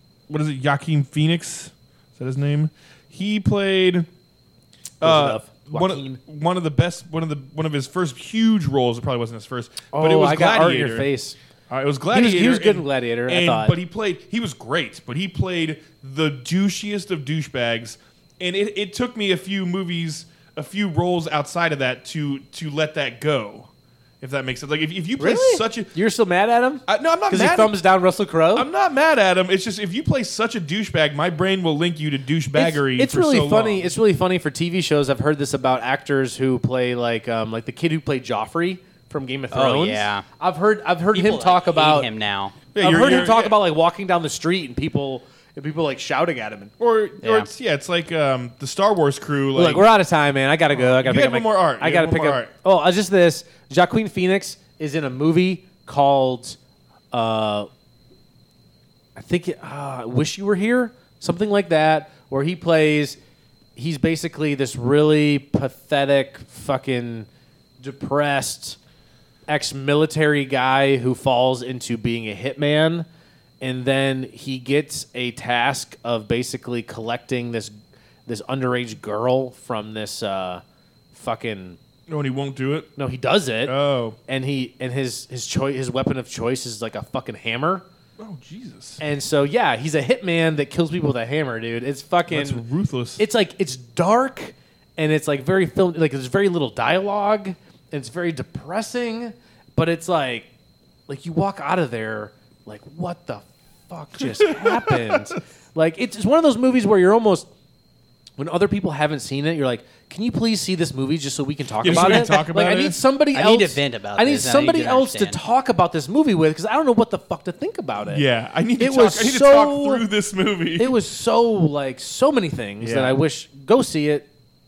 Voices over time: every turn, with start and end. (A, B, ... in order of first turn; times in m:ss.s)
0:00.3-0:04.1 A
0:05.0-0:11.1 A
0:05.0-0:06.2 B
0:09.9-0:11.4 B
0:11.7-0:23.7 A
0:12.1-0:13.8 B
0:24.2-0:25.9 A
0:25.2-0:28.7 B
0:26.9-0:27.8 A
0:28.5-0:33.9 A
0:32.5-0:42.1 B
0:39.5-0:40.2 C
0:41.1-0:42.6 C
0:42.7-0:43.6 A
0:42.7-0:46.7 B
0:46.8-0:49.9 A
0:47.2-0:47.5 C
0:49.5-0:56.6 B
0:50.7-0:52.5 A
0:57.1-0:57.7 B
0:59.2-1:03.2 B
1:03.8-1:07.3 B
1:07.8-1:08.8 B
1:09.5-1:13.1 B
1:13.6-1:17.7 B
1:18.2-1:20.6 B
1:21.1-1:21.8 B
1:22.1-1:22.9 A
1:23.0-1:23.8 B
1:23.6-1:24.2 A
1:24.3-1:27.8 B
1:28.2-1:29.0 A
1:29.0-1:32.6 B
1:32.3-1:33.2 A
1:33.2-1:40.5 B
1:41.1-1:47.5 B
1:44.2-1:45.3 A
1:48.4-1:58.2 B
1:51.8-1:53.0 A
1:51.8-1:52.4 C
1:53.3-1:55.4 C
1:58.1-2:01.0 A
1:58.8-2:00.1 B
2:00.8-2:04.3 B
2:02.8-2:03.2 A